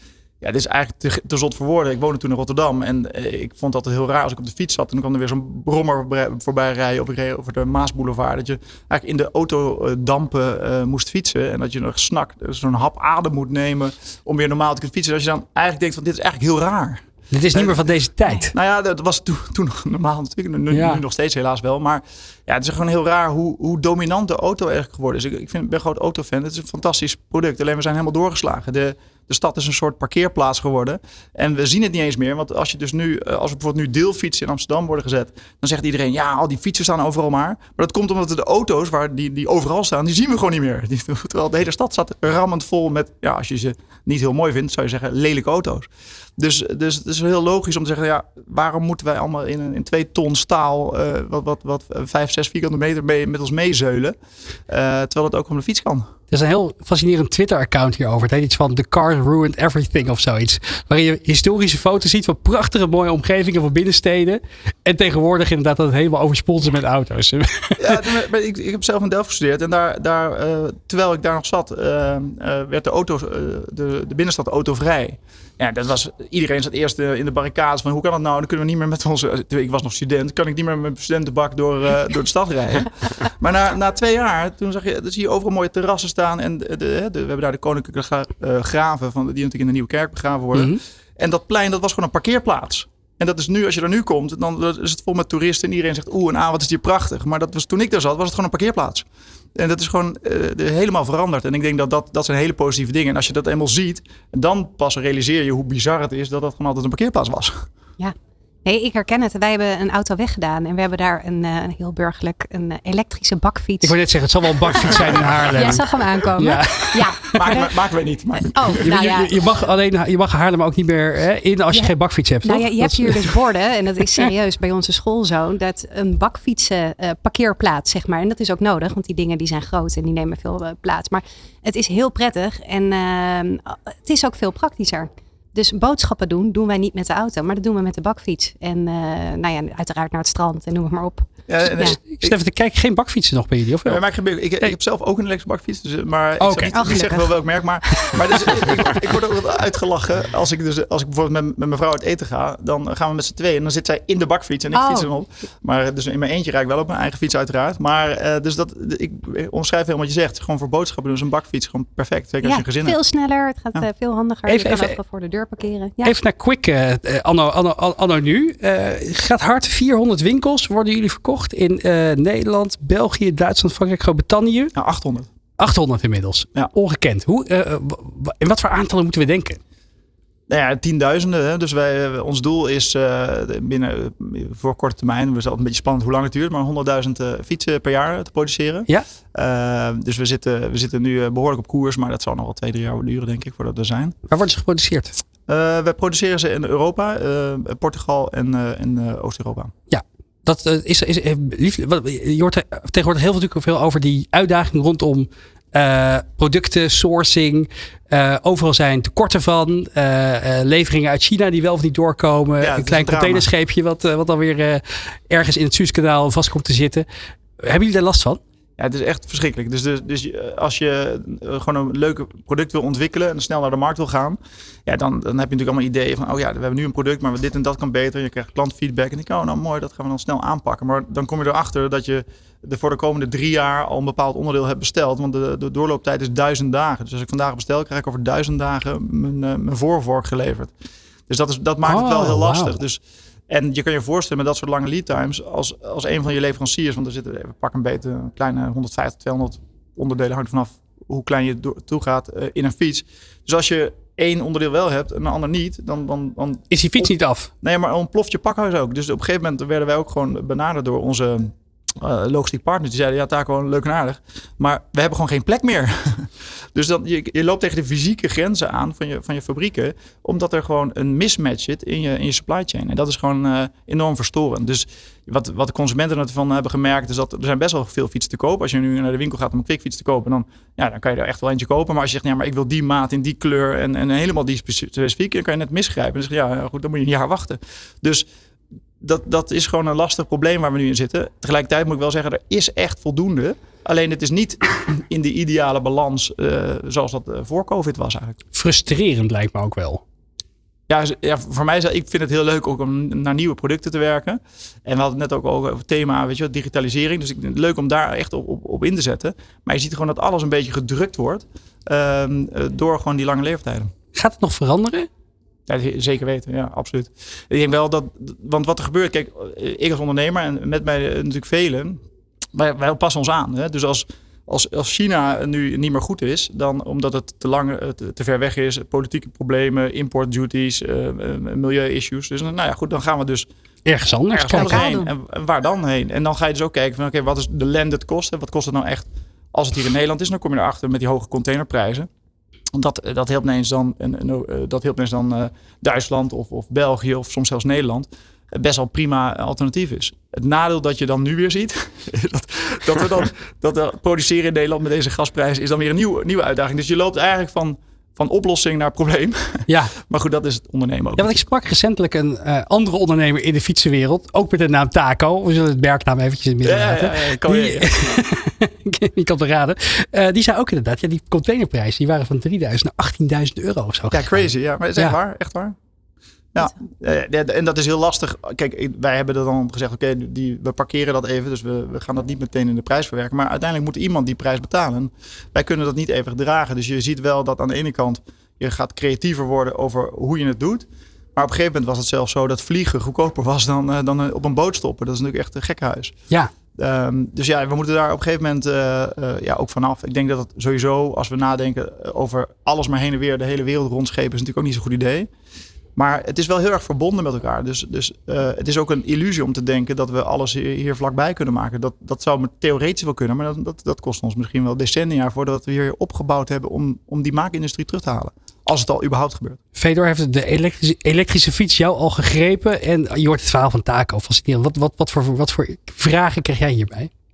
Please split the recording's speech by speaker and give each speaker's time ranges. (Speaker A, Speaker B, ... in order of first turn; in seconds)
Speaker A: 0.4-17.0, 17.5-17.9, 18.5-54.2, 54.7-56.1, 67.8-107.7, 117.3-118.8, 141.5-142.3, 143.8-163.0, 174.8-175.3, 180.5-194.2, 195.5-199.7, 212.6-213.5, 218.8-240.7, 241.3-257.1, 257.6-288.3, 289.0-298.4, 300.9-313.9, 315.7-322.0, 322.5-333.5, 334.3-342.1, 342.7-361.4, 366.6-368.2, 374.1-375.8, 376.5-396.1, 396.8-405.3, 405.9-419.6
Speaker B: 17.3-18.5, 20.7-21.0, 56.3-68.0, 90.5-90.8, 113.8-117.5, 118.8-123.3, 141.8-144.0, 146.4-146.8, 164.5-165.0, 166.0-174.7, 175.6-179.6, 194.3-195.1, 199.9-217.1, 217.6-218.4, 241.8-242.8, 256.7-257.5, 298.5-300.0, 314.1-315.1, 333.9-335.0, 359.7-360.0, 361.2-375.1, 419.8-427.1
Speaker C: 108.0-114.0, 114.6-117.7, 118.4-119.5, 121.7-142.0, 146.7-147.3, 147.9-148.7, 154.7-155.1, 162.4-166.2, 334.5-335.1